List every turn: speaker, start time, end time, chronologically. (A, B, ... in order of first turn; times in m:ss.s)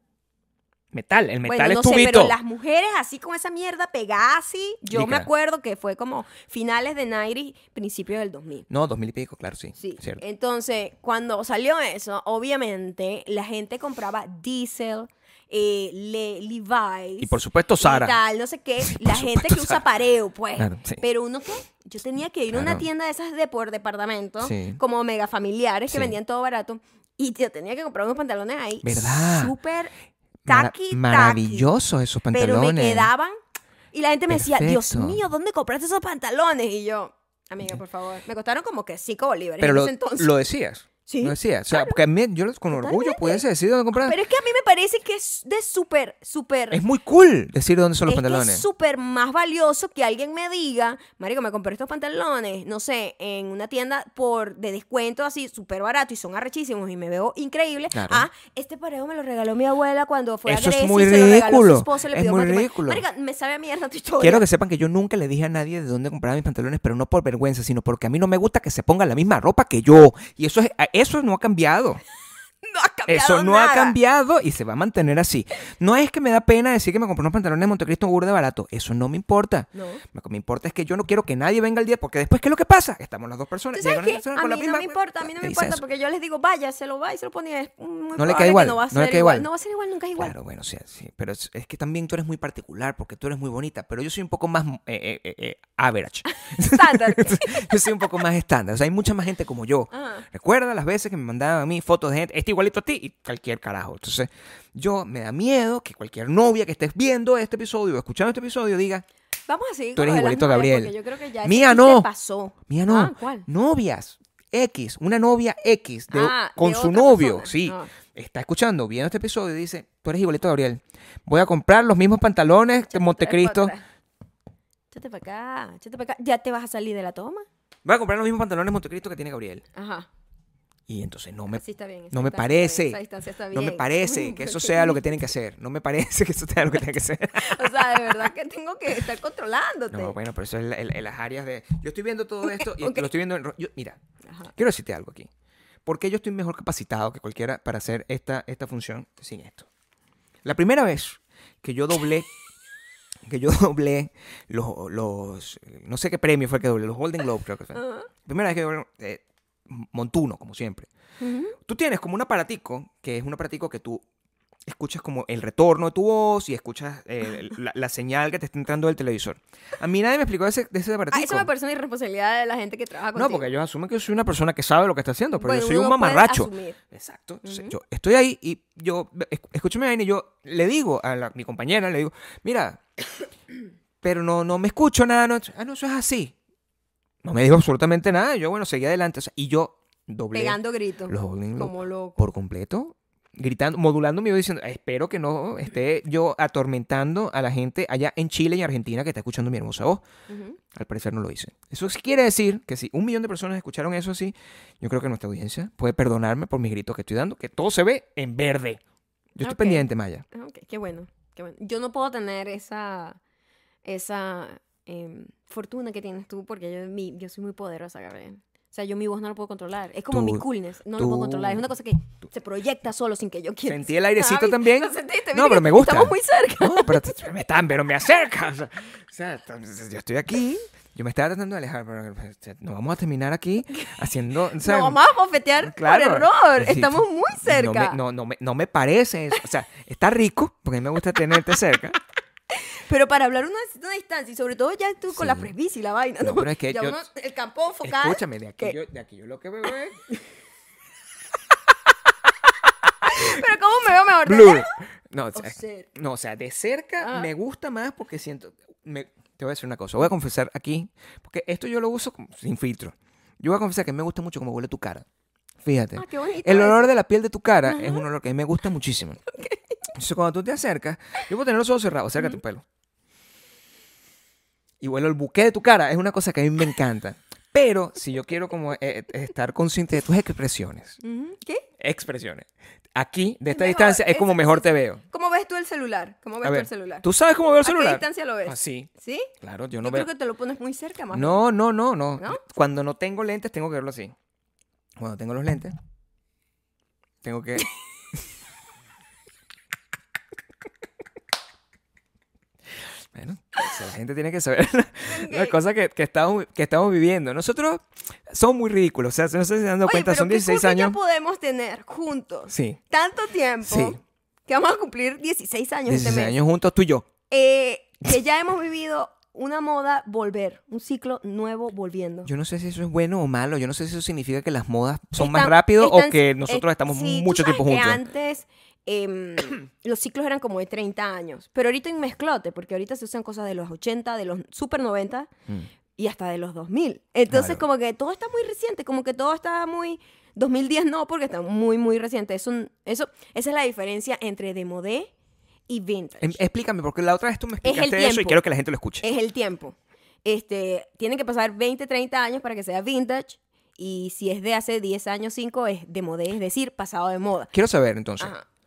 0:00.9-0:02.4 A
0:01.4-0:08.7 B
0:04.9-0:05.3 A
0:08.7-0:10.2 A
0:09.8-0:29.9 B
0:17.2-0:18.2 A
0:18.8-0:19.8 A
0:20.6-0:21.0 A
0:22.5-0:22.8 A
0:24.4-0:24.8 A
0:25.9-0:26.1 A
0:28.8-0:29.5 A
0:30.4-0:33.1 A
0:30.5-0:31.7 B
0:32.3-0:33.4 B
0:33.9-0:40.3 B
0:34.3-0:35.2 A
0:39.6-0:44.2 A
0:41.0-0:42.0 B
0:42.7-0:43.4 B
0:44.0-0:46.8 B
0:46.7-0:48.6 A
0:48.1-1:04.4 B
0:57.9-0:58.3 A
1:00.5-1:03.0 A
1:04.2-1:12.0 A
1:12.6-1:14.0 B
1:13.1-1:25.8 A
1:19.7-1:20.0 B
1:23.7-1:30.3 B
1:28.2-1:29.5 A
1:30.2-1:49.0 A
1:36.3-1:38.0 B
1:39.9-1:40.2 B
1:49.5-1:53.5 B
1:50.0-1:52.1 A
1:52.7-2:03.7 A
1:56.1-1:57.9 B
2:02.9-2:03.8 B
2:04.9-2:07.4 B
2:07.8-2:09.6 A
2:09.7-2:10.1 B
2:10.9-2:11.6 A
2:11.5-2:15.2 B
2:12.1-2:18.3 A
2:17.3-2:20.2 B
2:19.9-2:24.0 A
2:22.4-2:23.1 B
2:24.6-2:25.3 A
2:25.8-2:29.7 A
2:30.4-2:32.3 A
2:33.2-2:40.9 A
2:37.7-2:38.1 B
2:41.2-2:41.6 B
2:41.6-2:44.0 A
2:44.6-2:51.5 A
2:51.1-2:53.5 B
2:53.1-3:02.8 A
2:55.4-2:56.8 B
2:57.4-2:57.7 B
3:04.0-3:06.3 A
3:07.2-3:20.0 A
3:10.3-3:12.2 B
3:20.3-3:20.6 B
3:20.7-3:28.8 A
3:29.4-3:30.2 A
3:29.4-3:33.2 B
3:33.8-3:47.2 B
3:40.1-3:40.4 A
3:41.0-3:41.7 A
3:43.7-3:55.0 A
3:54.6-3:58.0 B
3:55.6-4:02.0 A
4:02.7-4:08.8 B
4:05.1-4:05.5 A
4:06.2-4:07.0 A
4:07.8-4:10.0 A
4:13.0-4:14.7 B
4:13.1-4:13.4 A
4:14.2-4:25.0 A
4:15.3-4:15.9 B
4:17.0-4:17.3 B
4:25.6-4:29.2 A
4:26.0-4:26.9 B
4:27.7-4:28.0 B
4:29.3-4:29.9 B
4:29.9-4:32.6 A
4:34.8-4:41.0 A
4:41.0-4:41.6 B
4:41.8-4:45.0 A
4:43.5-4:47.0 B
4:46.4-4:48.9 A
4:47.6-4:49.3 B
4:49.4-4:50.1 A
4:49.8-4:51.5 B
4:51.1-4:54.1 A
4:55.0-4:55.7 A
4:57.2-4:57.7 A
5:03.1-5:11.0 A
5:05.0-5:05.6 B
5:09.8-5:16.4 B
5:12.5-5:12.8 A
5:13.6-5:14.0 A
5:15.9-5:17.1 A
5:17.3-5:22.3 B
5:22.2-5:28.0 A
5:25.2-5:35.3 B
5:36.0-5:45.1 B
5:37.3-5:37.6 A
5:45.7-5:46.4 B
5:46.2-5:49.0 A
5:47.6-5:48.4 B
5:49.0-5:57.5 B
5:57.5-5:58.3 A
5:58.2-5:58.4 B